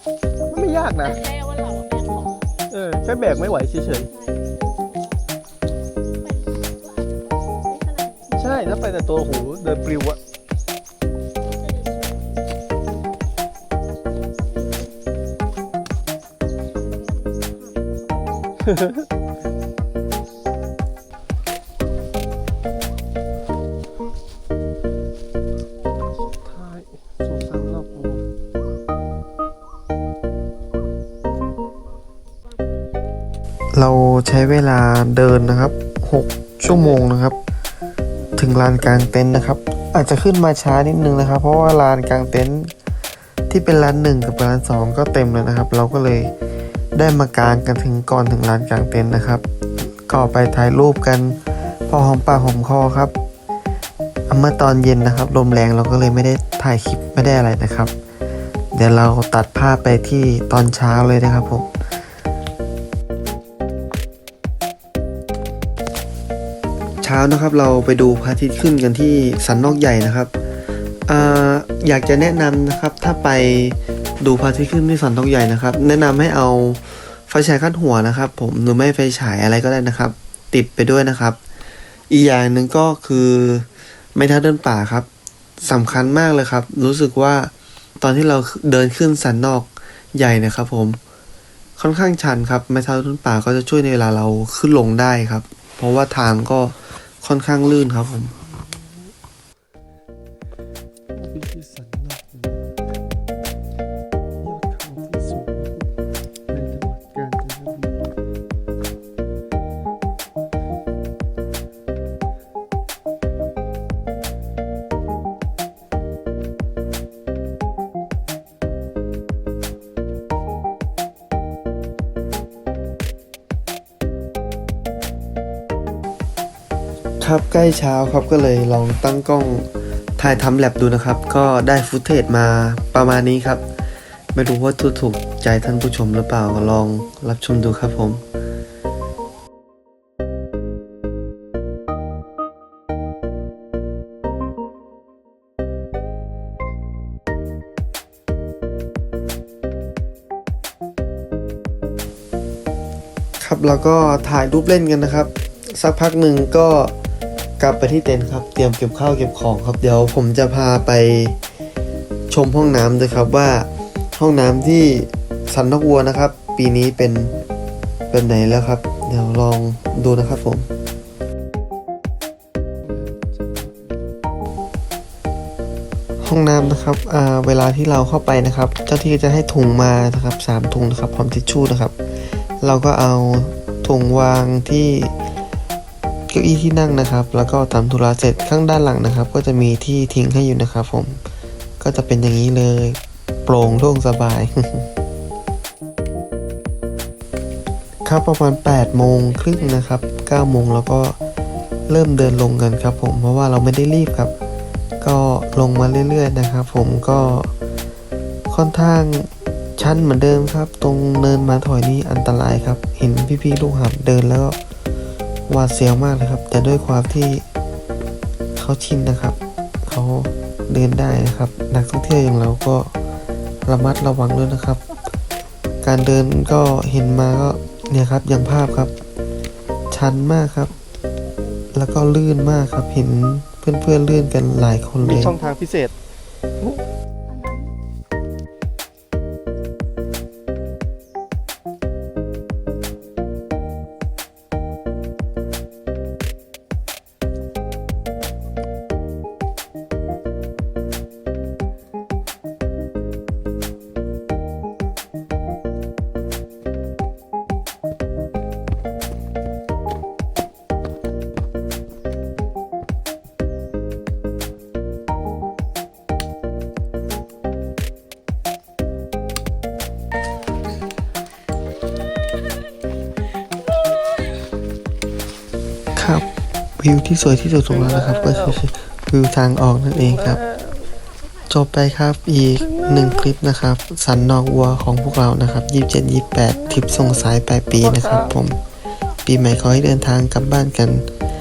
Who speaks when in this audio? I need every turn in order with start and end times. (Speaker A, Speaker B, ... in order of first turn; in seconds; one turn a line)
Speaker A: 0.5-1.2
Speaker B: 1.0-2.5
Speaker A: 2.7-4.1
Speaker B: 4.1-5.2
Speaker B: 6.2-8.7
Speaker A: 8.3-10.2
Speaker B: 11.4-12.5
Speaker B: 14.5-14.9
Speaker B: 16.7-18.7
Speaker A: 18.7-19.0
Speaker A: 26.0-28.3
Speaker C: 33.7-37.4
Speaker A: 36.7-37.1
Speaker C: 38.4-42.7
Speaker C: 43.5-46.3
Speaker C: 46.9-53.1
Speaker C: 54.3-57.9
Speaker C: 58.7-61.7
Speaker C: 67.0-70.3
Speaker C: 71.1-81.4
Speaker C: 82.1-85.1
Speaker C: 85.6-91.0
Speaker C: 91.8-98.3
Speaker A: 98.4-99.1
Speaker A: 101.1-102.7
Speaker A: 104.4-105.8
Speaker A: 106.5-108.1
Speaker C: 127.2-133.6
Speaker C: 134.3-138.2
Speaker C: 153.4-156.9
Speaker C: 157.6-161.4
Speaker C: 162.3-167.3
Speaker C: 168.1-170.7
Speaker A: 172.8-174.1
Speaker C: 176.2-181.9
Speaker C: 182.6-185.1
Speaker C: 186.3-191.2
Speaker C: 191.8-194.9
Speaker C: 198.1-201.2
Speaker C: 201.9-204.3
Speaker C: 205.0-207.5
Speaker C: 208.5-214.6
Speaker C: 215.5-217.4
Speaker C: 218.6-222.9
Speaker C: 223.7-224.8
Speaker C: 225.8-228.9
Speaker C: 229.9-230.7
Speaker C: 231.7-235.4
Speaker A: 235.0-235.9
Speaker B: 237.3-237.7
Speaker C: 276.0-276.3
Speaker C: 276.8-280.4
Speaker A: 277.7-278.6
Speaker A: 279.9-281.0
Speaker C: 281.5-288.6
Speaker A: 282.6-283.3
Speaker A: 286.5-288.4
Speaker C: 289.2-291.1